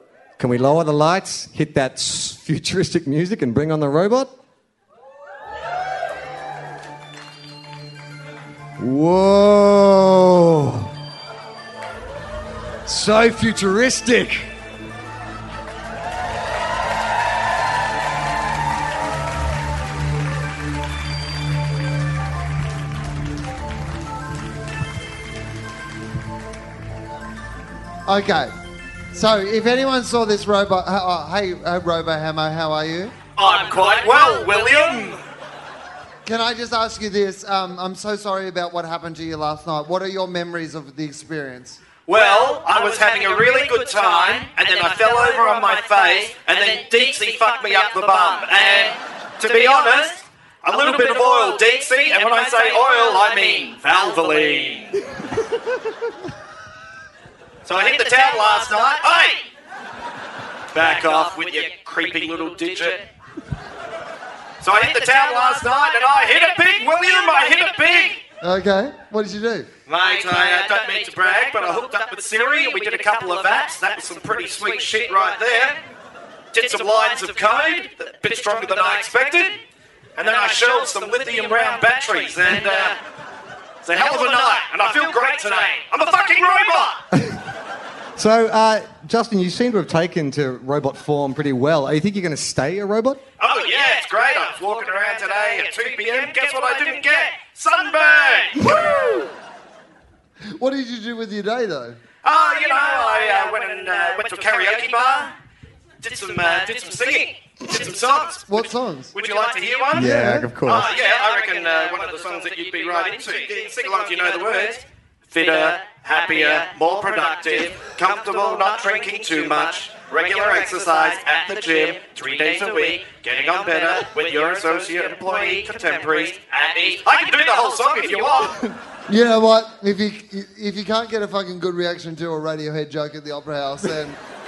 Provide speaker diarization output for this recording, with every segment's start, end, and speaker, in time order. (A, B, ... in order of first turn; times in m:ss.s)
0:00.4-0:04.3 A
0:08.8-0:10.9 A
0:12.9-0:14.5 A
0:28.0-0:28.5 B
0:29.1-0:33.1 B
0:33.4-0:35.2 C
0:36.2-0:41.8 B
0:42.1-0:55.0 C
0:57.6-0:59.4 C
1:00.7-1:03.0 C
1:04.6-1:08.2 C
1:08.4-1:09.7 B
1:09.9-1:15.8 C
1:16.5-1:19.6 C
1:20.2-1:23.0 C
1:23.8-1:27.0 C
1:27.1-1:27.4 A
1:28.2-1:33.2 A
1:33.4-1:38.8 C
1:40.5-1:42.0 B
1:42.2-1:45.3 C
1:46.0-2:08.7 C
1:48.5-1:49.1 B
1:49.9-1:50.9 A
1:49.9-1:50.5 B
2:09.1-2:14.2 B